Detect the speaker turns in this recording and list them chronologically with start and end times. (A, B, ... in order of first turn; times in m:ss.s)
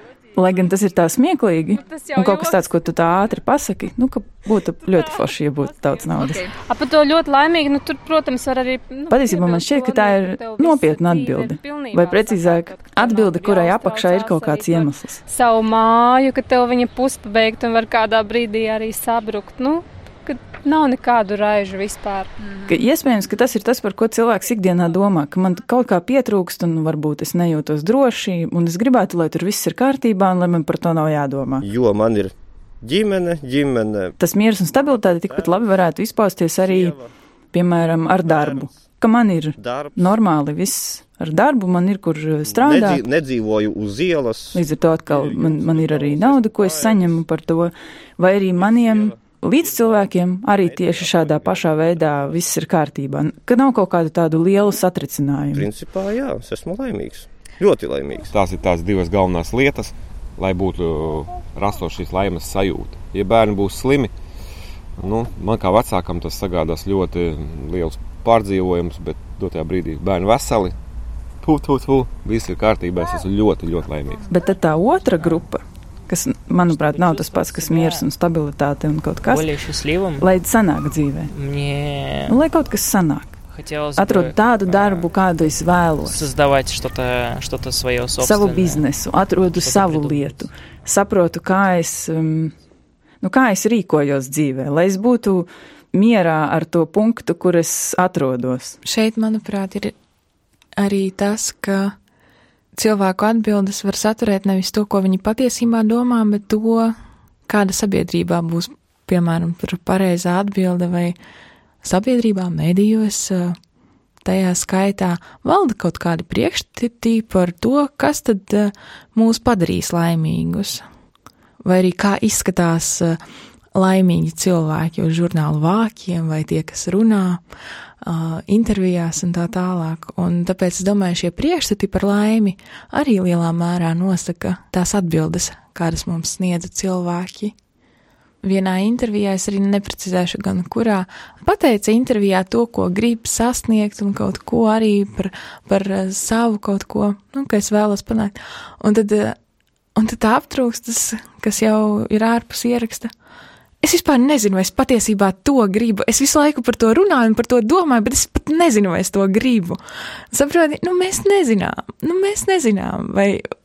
0:00.3-0:06.5 A
0:01.8-0:03.0 B
0:05.7-0:22.3 B
0:09.1-0:15.2 A
0:22.7-0:31.6 A
0:31.6-0:34.1 C
0:34.2-0:37.0 A
0:34.7-0:35.7 C
0:36.5-0:37.1 C
0:37.5-0:43.0 A
0:38.2-0:38.8 C
0:39.6-0:40.2 C
0:42.4-0:44.6 C
0:44.5-0:55.7 A
0:45.4-0:47.1 C
0:50.7-0:51.3 C
0:55.5-0:58.3 C
0:58.3-1:04.1 D
1:05.0-1:10.8 D
1:11.4-1:14.2 D
1:14.3-1:19.6 A
1:16.7-1:18.0 E
1:19.2-1:20.3 E
1:20.1-1:21.3 A
1:21.3-1:22.4 E
1:22.3-1:23.4 A
1:23.5-1:25.3 E
1:23.9-1:26.3 A
1:26.0-1:28.8 E
1:28.1-1:32.5 A
1:29.5-1:30.4 E
1:33.2-1:38.8 A
1:38.8-1:39.9 F
1:40.8-1:41.9 F
1:42.8-1:46.9 F
1:47.5-1:51.1 F
1:51.8-1:53.5 F
1:54.2-2:00.8 F
2:01.6-2:03.2 F
2:03.7-2:07.4 F
2:08.0-2:17.5 F
2:18.4-2:29.4 F
2:30.0-2:33.1 F
2:33.8-2:39.8 F
2:40.3-2:43.4 F